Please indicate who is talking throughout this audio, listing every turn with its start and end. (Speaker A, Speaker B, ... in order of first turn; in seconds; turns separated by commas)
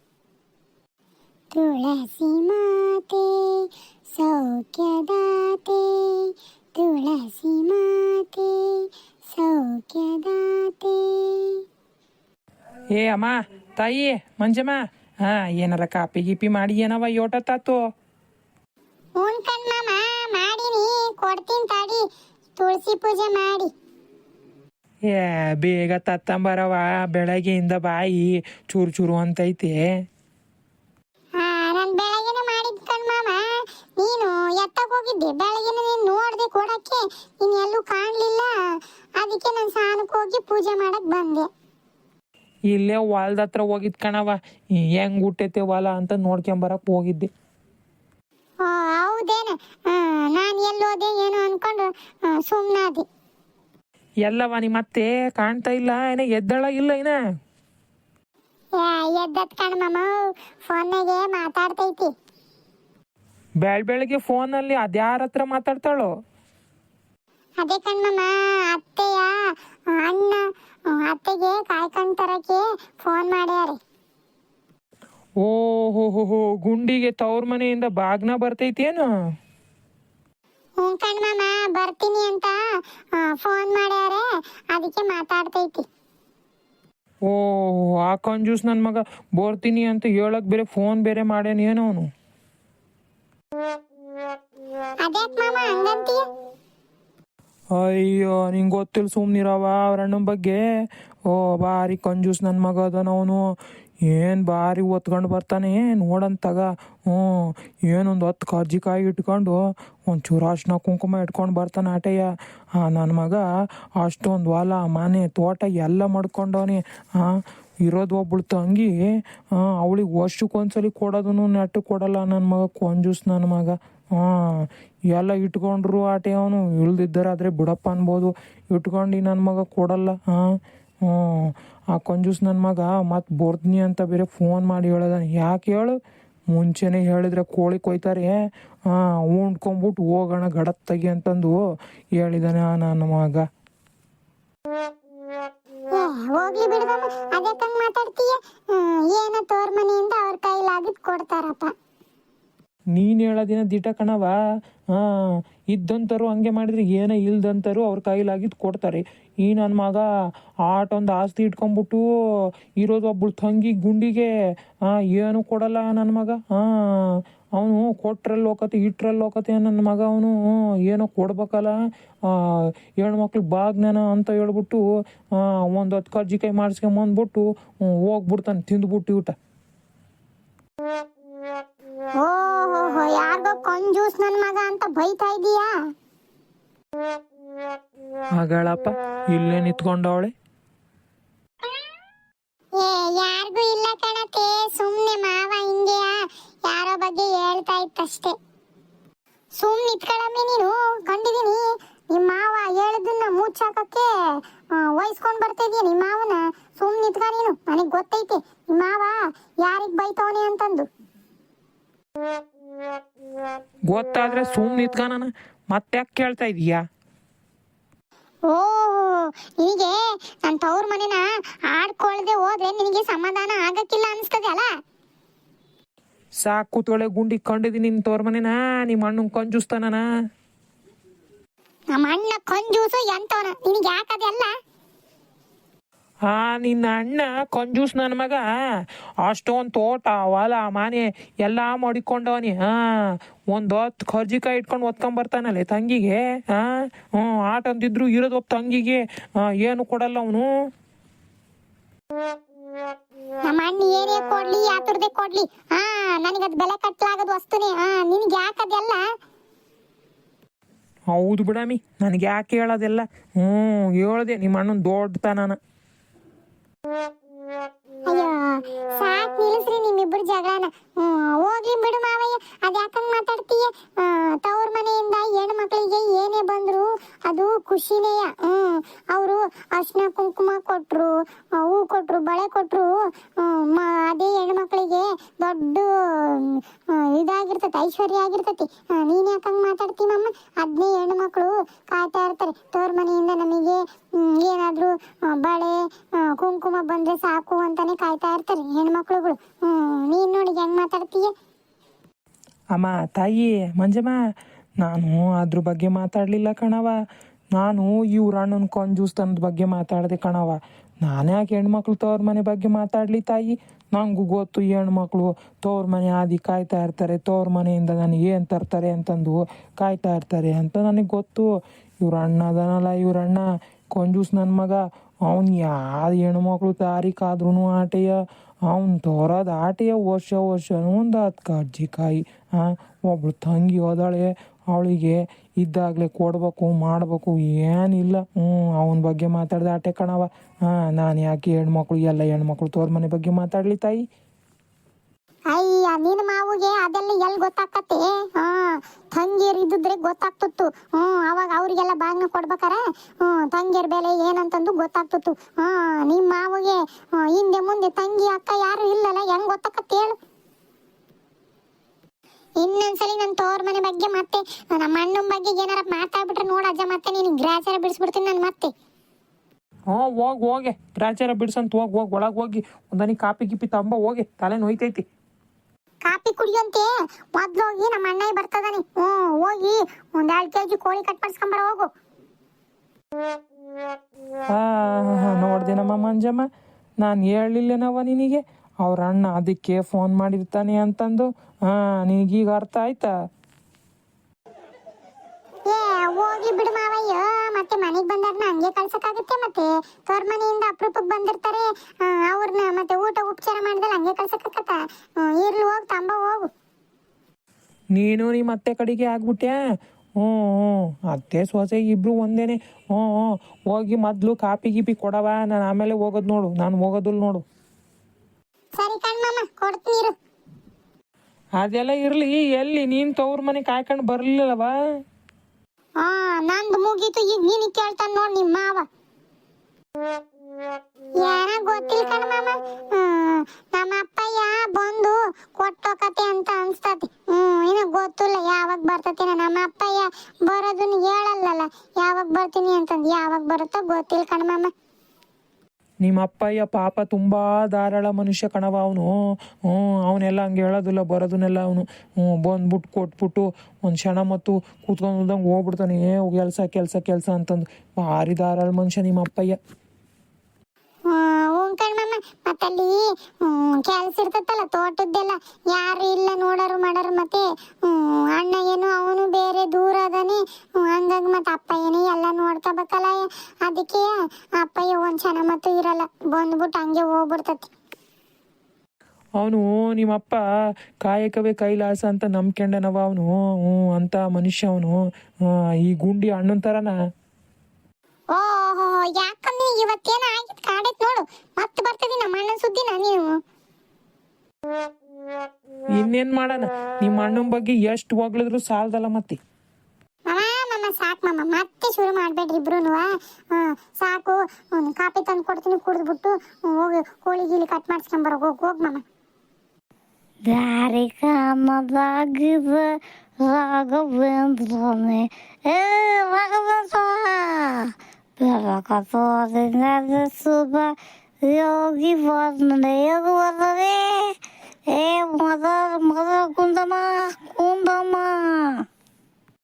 Speaker A: 1.5-11.6, Speaker B: 12.9-17.8, Speaker A: 19.2-22.0, Speaker A: 22.6-23.7, Speaker B: 25.1-29.8, Speaker A: 31.4-33.4, Speaker A: 34.0-38.5, Speaker A: 39.2-41.5, Speaker B: 42.7-47.3, Speaker A: 48.6-53.0, Speaker B: 54.2-57.1, Speaker A: 58.8-60.1, Speaker A: 60.6-62.1, Speaker B: 63.6-66.1, Speaker A: 67.6-69.3, Speaker A: 70.0-73.8, Speaker B: 75.4-79.0, Speaker A: 80.8-82.5, Speaker A: 83.2-85.8, Speaker B: 87.3-92.1, Speaker A: 95.0-96.2, Speaker B: 97.8-100.6, Speaker B: 101.3-103.4, Speaker B: 104.1-107.2, Speaker B: 107.9-112.2, Speaker B: 112.8-113.4, Speaker B: 114.0-117.3, Speaker B: 117.8-118.9, Speaker B: 119.6-124.3, Speaker B: 125.1-130.4, Speaker B: 131.1-136.0, Speaker B: 136.5-138.3, Speaker B: 138.9-141.6, Speaker B: 142.2-143.4, Speaker A: 145.9-151.7, Speaker B: 152.9-154.3, Speaker B: 155.7-160.0, Speaker B: 160.7-162.0, Speaker B: 162.8-164.3, Speaker B: 164.9-166.7, Speaker B: 167.6-171.7, Speaker B: 173.0-174.8, Speaker B: 175.4-179.3, Speaker A: 182.2-185.7, Speaker B: 188.4-190.3, Speaker A: 192.8-196.2, Speaker A: 196.7-198.3, Speaker A: 199.6-204.1, Speaker A: 204.8-210.9, Speaker B: 213.9-216.8, Speaker A: 218.5-224.7, Speaker B: 226.4-230.0, Speaker A: 231.9-234.5, Speaker B: 236.3-238.4, Speaker B: 239.2-242.7, Speaker B: 243.5-250.4, Speaker A: 253.4-259.0, Speaker B: 261.1-265.6, Speaker A: 268.1-268.4, Speaker A: 268.9-301.3, Speaker B: 302.8-304.1, Speaker B: 304.8-306.9, Speaker B: 307.6-321.4, Speaker B: 322.0-323.4, Speaker B: 323.9-328.1, Speaker B: 328.7-344.0, Speaker A: 345.5-360.1, Speaker A: 362.6-368.7, Speaker B: 369.9-375.0, Speaker A: 376.0-381.9, Speaker B: 384.5-386.5, Speaker B: 387.0-393.1, Speaker A: 395.7-406.5, Speaker B: 407.9-409.6, Speaker B: 410.2-417.4, Speaker A: 418.7-420.1, Speaker B: 421.6-424.7, Speaker A: 426.0-428.9, Speaker A: 431.2-444.7, Speaker B: 446.0-449.1, Speaker B: 449.7-459.6, Speaker A: 461.1-474.1, Speaker A: 474.6-477.7, Speaker B: 479.4-480.4, Speaker B: 481.0-484.9, Speaker B: 485.8-486.9, Speaker A: 488.3-493.4, Speaker B: 495.9-499.4, Speaker A: 500.3-509.0, Speaker C: 510.5-520.9, Speaker C: 521.5-524.4, Speaker C: 524.9-528.8